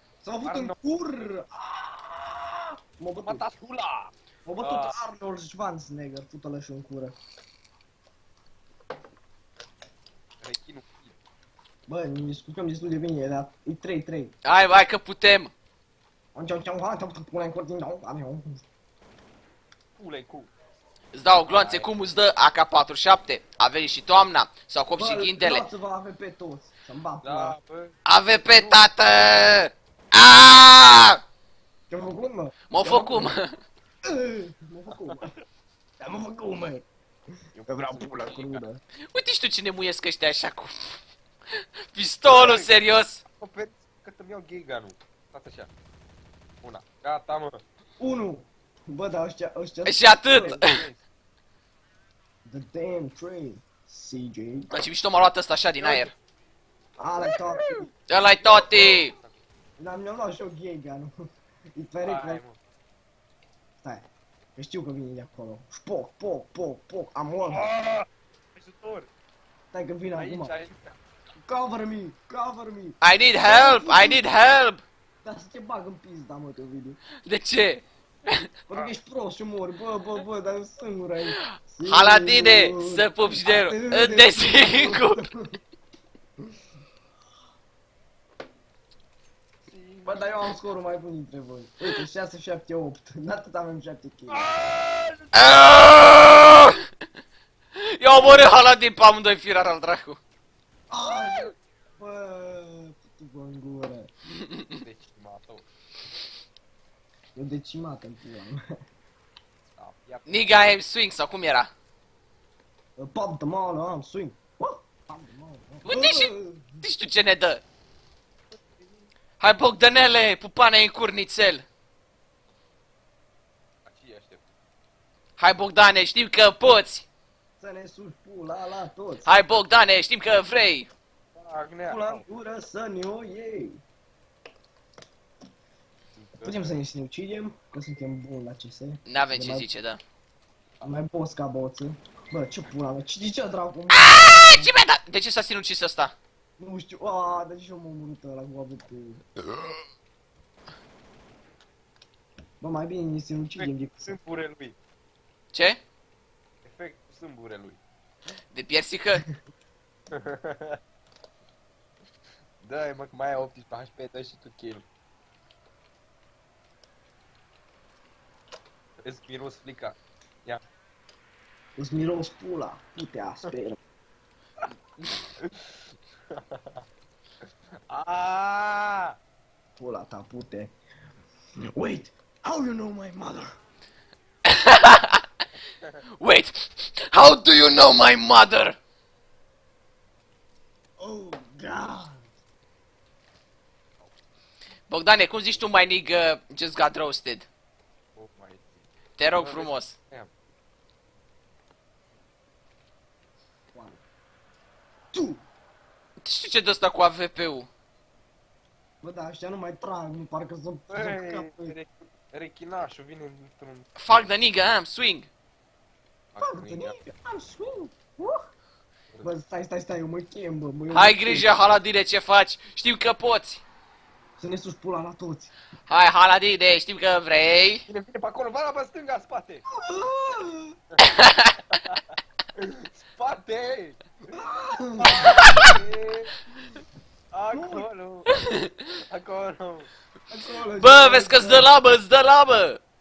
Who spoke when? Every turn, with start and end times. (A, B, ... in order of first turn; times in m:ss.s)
0:00.2-0:03.4 A
0:00.4-0:00.8 B
0:03.3-0:05.0 B
0:04.5-0:07.2 A
0:10.4-0:11.2 B
0:11.9-0:14.4 A
0:14.4-0:15.5 C
0:16.4-0:18.6 A
0:20.0-0:20.5 B
0:21.1-0:25.6 C
0:21.5-0:21.9 B
0:25.0-0:27.6 A
0:27.2-0:28.9 B
0:28.1-0:31.2 C
0:31.9-0:33.4 A
0:32.7-0:33.6 C
0:34.1-0:35.3 A
0:36.0-0:36.9 A
0:37.5-0:38.6 B
0:37.7-0:38.8 A
0:39.1-0:41.0 C
0:41.9-0:43.2 C
0:42.2-0:45.7 B
0:46.6-0:47.6 B
0:48.0-0:50.6 A
0:49.9-0:50.8 C
0:50.3-0:51.0 B
0:52.5-0:54.7 A
0:54.7-0:56.1 C
0:55.8-0:56.1 B
0:57.0-0:57.9 A
0:57.2-0:57.9 B
0:58.1-0:59.1 C
0:58.4-0:59.4 B
0:59.8-1:01.2 A
1:01.8-1:02.4 A
1:02.0-1:02.6 B
1:03.8-1:07.7 A
1:07.5-1:09.1 B
1:09.7-1:10.5 A
1:10.1-1:11.0 B
1:11.4-1:14.3 A
1:13.0-1:14.8 C
1:15.2-1:17.0 A
1:17.2-1:18.5 C
1:18.7-1:25.6 A
1:21.7-1:25.2 C
1:29.6-1:30.6 B
1:30.0-1:34.5 A
1:34.3-1:35.3 B
1:35.3-1:36.8 C
1:37.8-1:40.2 C
1:40.9-1:44.1 A
1:44.7-1:45.6 B
1:47.4-1:48.6 A
1:49.8-1:50.7 B
1:50.3-1:51.7 C
1:53.0-1:56.8 A
1:55.8-1:57.6 C
1:59.4-2:01.6 C
2:03.9-2:04.4 B
2:05.4-2:07.1 C
2:07.6-2:09.3 A
2:09.2-2:10.9 C
2:11.4-2:12.2 B
2:11.8-2:13.8 A
2:16.1-2:16.8 B
2:16.4-2:19.7 A
2:19.1-2:20.0 C
2:20.8-2:24.7 A
2:23.9-2:26.2 C
2:26.6-2:29.3 A
2:32.6-2:34.1 A
2:33.6-2:34.8 B
2:35.5-2:35.8 C
2:36.6-2:37.8 B
2:38.5-2:39.3 C
2:40.1-2:40.8 B
2:42.6-2:44.8 B
2:49.0-2:50.6 B
2:51.8-2:53.8 A
2:56.3-2:56.8 B
2:57.9-2:59.2 B
2:59.8-3:00.7 A
3:01.7-3:03.6 A
3:04.5-3:05.2 C
3:06.2-3:08.8 C
3:11.0-3:12.3 A
3:14.9-3:17.5 C
3:18.2-3:20.3 B
3:19.2-3:20.0 C
3:23.7-3:24.0 A
3:25.1-3:25.4 A
3:26.2-3:27.7 C
3:29.0-3:31.8 A
3:30.9-3:33.9 B
3:34.0-3:35.3 C
3:36.3-3:37.0 B
3:36.4-3:38.5 A
3:39.2-3:41.6 A
3:40.9-3:43.6 C
3:44.4-3:45.5 A
3:45.9-3:47.8 C
3:47.9-3:49.6 B
3:49.7-3:50.8 A
3:51.0-3:51.6 C
3:51.7-3:52.0 B
3:52.6-3:54.0 B
3:54.3-3:55.3 A
3:55.0-3:56.4 B
3:55.4-3:55.7 C
3:57.3-3:58.3 B
3:57.5-3:57.9 A
3:58.9-3:59.9 B
4:00.3-4:01.7 A
4:00.8-4:02.8 C